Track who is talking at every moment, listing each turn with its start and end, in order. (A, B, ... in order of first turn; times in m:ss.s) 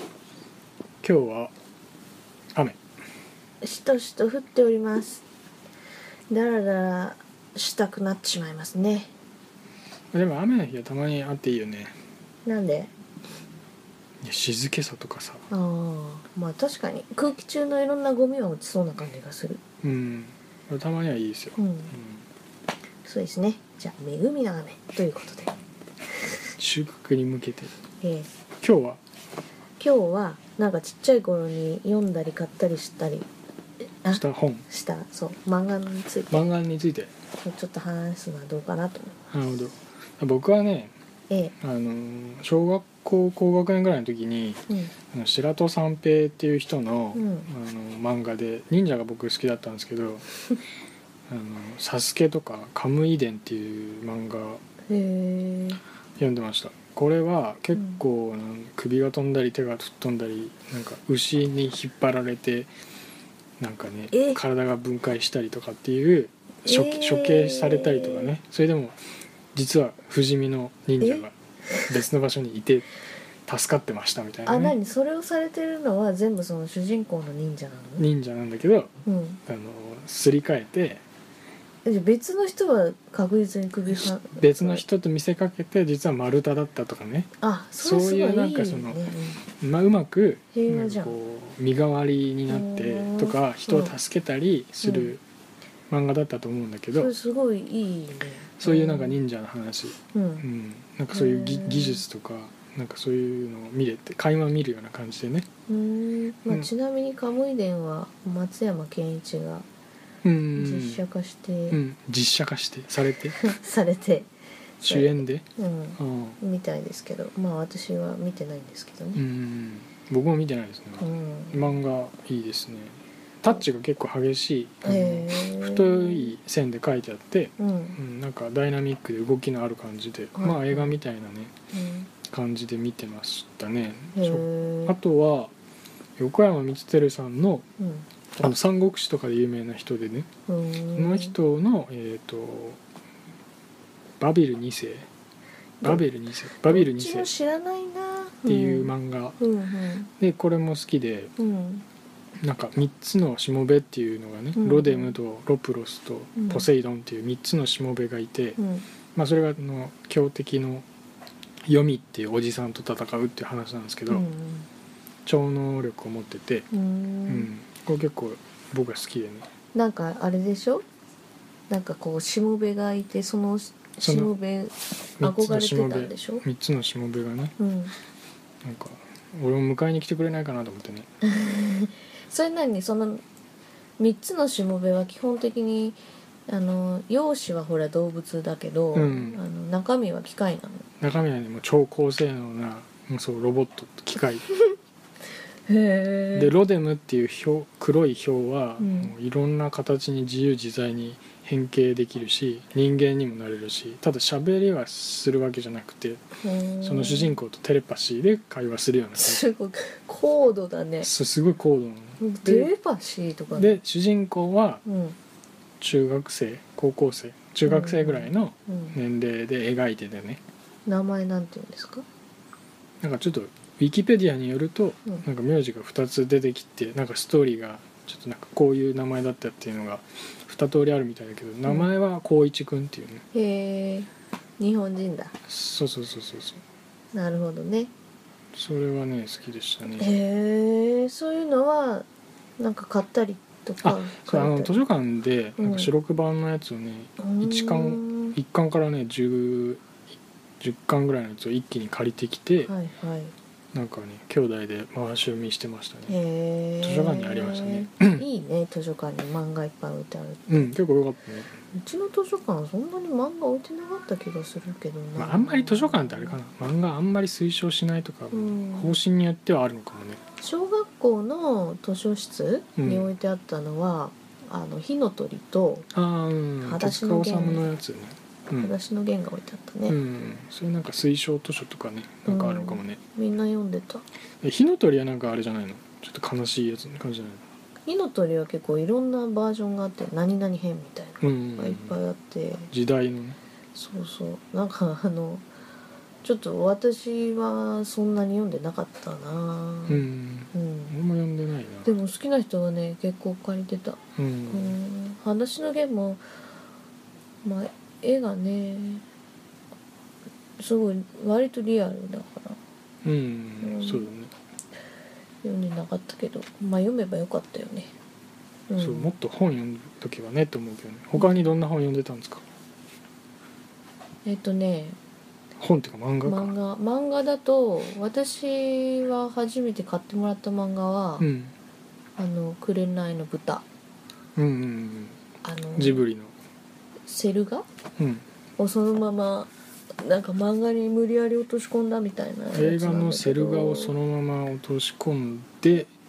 0:01.0-0:01.5 A
0:03.6-0:05.2 B
0:06.3-0:09.1 B
0:10.1-0:12.0 A
0:12.4-0:12.9 B
0:14.2-0:15.4 A
0:15.5-0:19.6 B
0:19.8-0:22.2 A
0:21.6-0:21.9 B
0:23.0-0:25.5 B
0:26.6-0:27.7 A
0:28.0-0:28.3 B
0:28.6-0:29.0 A
0:29.8-0:33.3 B
0:34.0-0:36.5 B
0:34.1-0:34.7 A
0:36.3-0:37.1 A
0:37.4-0:39.2 B
0:39.3-0:40.9 A
0:41.3-0:41.5 B
0:41.6-0:44.6 A
0:45.1-0:50.2 A
0:47.1-0:47.5 B
0:51.3-0:54.6 A
0:54.9-0:55.8 B
0:56.2-1:02.7 A
0:57.7-0:58.0 B
1:03.6-1:09.0 A
1:04.1-1:04.4 B
1:06.7-1:08.3 B
1:09.6-1:11.3 A
1:11.0-1:12.0 B
1:11.9-1:12.9 A
1:13.5-1:14.8 A
1:14.4-1:18.1 B
1:18.0-1:18.9 A
1:19.0-1:19.4 B
1:19.5-1:21.0 A
1:21.8-1:24.8 B
1:23.9-1:29.0 A
1:27.4-1:29.4 B
1:29.6-1:35.2 A
1:30.5-1:31.1 B
1:32.5-1:33.9 B
1:34.8-1:35.1 B
1:35.9-1:37.1 A
1:36.9-1:39.2 B
1:38.6-1:45.5 A
1:40.1-1:40.4 B
1:41.1-1:42.0 B
1:45.7-1:49.7 B
1:50.2-1:51.0 A
1:50.6-1:51.8 B
1:51.7-1:53.5 A
1:53.4-1:54.3 B
1:54.8-1:56.4 A
1:54.8-1:59.2 B
1:59.2-2:11.5 A
2:01.0-2:01.7 B
2:04.8-2:06.3 B
2:07.6-2:08.0 B
2:10.4-2:11.0 B
2:11.7-2:12.1 B
2:12.3-2:15.5 A
2:14.2-2:14.9 B
2:16.2-2:17.6 A
2:17.8-2:18.1 B
2:18.4-2:20.3 A
2:20.5-2:21.4 B
2:21.0-2:22.8 A
2:24.2-2:25.1 A
2:25.8-2:27.3 A
2:26.6-2:30.1 B
2:28.4-2:29.4 A
2:30.2-2:31.3 A
2:31.4-2:31.8 B
2:32.4-2:38.6 A
2:34.6-2:35.2 B
2:36.4-2:36.6 B
2:38.6-2:38.9 B
2:39.1-2:40.8 A
2:41.6-2:44.2 A
2:44.1-2:44.7 B
2:45.2-2:46.7 A
2:46.7-2:47.5 B
2:47.3-2:49.5 A
2:49.7-2:50.8 B
2:51.7-2:56.4 B
2:54.0-2:54.3 A
2:55.2-2:57.6 A
2:57.6-2:57.9 B
2:58.6-3:01.1 A
3:01.2-3:03.2 B
3:04.0-3:10.9 B
3:08.9-3:09.4 A
3:11.0-3:14.4 A
3:15.7-3:16.5 B
3:16.4-3:26.2 A
3:18.8-3:19.1 B
3:26.4-3:27.4 B
3:26.8-3:29.4 A
3:29.2-3:31.1 B
3:31.0-3:32.7 A
3:32.2-3:33.7 B
3:33.5-3:34.8 A
3:34.8-3:35.2 B
3:35.8-3:40.4 A
3:37.6-3:39.0 B
3:40.9-3:42.0 B
3:43.0-3:53.2 A
3:53.3-3:55.3 B
3:55.5-3:56.6 A
3:57.1-3:57.9 B
3:58.5-4:00.1 A
4:00.0-4:02.0 B
4:02.6-4:04.8 B
4:03.8-4:09.8 A
4:05.6-4:05.9 B
4:07.2-4:08.4 B
4:10.6-4:12.7 A
4:12.7-4:13.3 B
4:13.7-4:16.1 A
4:16.1-4:20.7 B
4:16.8-4:18.2 A
4:20.5-4:21.5 A
4:21.7-4:26.4 B
4:25.2-4:30.2 A
4:28.3-4:29.0 B
4:30.4-4:35.9 B
4:32.8-4:33.1 A
4:35.9-4:38.7 A
4:36.6-4:37.7 B
4:38.6-4:40.0 B
4:39.9-4:43.0 A
4:42.3-4:44.0 B
4:44.4-4:47.4 A
4:47.9-4:52.7 B
4:51.2-4:52.0 A
4:52.7-4:53.4 A
4:53.8-4:55.5 B
4:56.2-5:00.9 B
4:59.9-5:01.9 A
5:01.8-5:06.2 B
5:04.2-5:04.8 A
5:07.4-5:09.1 B
5:10.6-5:12.6 B
5:13.0-5:14.3 A
5:13.6-5:14.1 B
5:15.4-5:17.9 B
5:18.7-5:19.1 B
5:18.8-5:22.5 A
5:21.2-5:21.4 B
5:24.2-5:25.0 B
5:25.6-5:26.5 A
5:26.2-5:31.3 B
5:31.2-5:31.5 A
5:32.2-5:33.6 B
5:34.4-5:35.2 A
5:35.4-5:36.0 B
5:35.8-5:36.3 A
5:37.1-5:37.7 B
5:38.0-5:38.2 A
5:38.6-5:43.9 B
5:42.5-5:45.9 A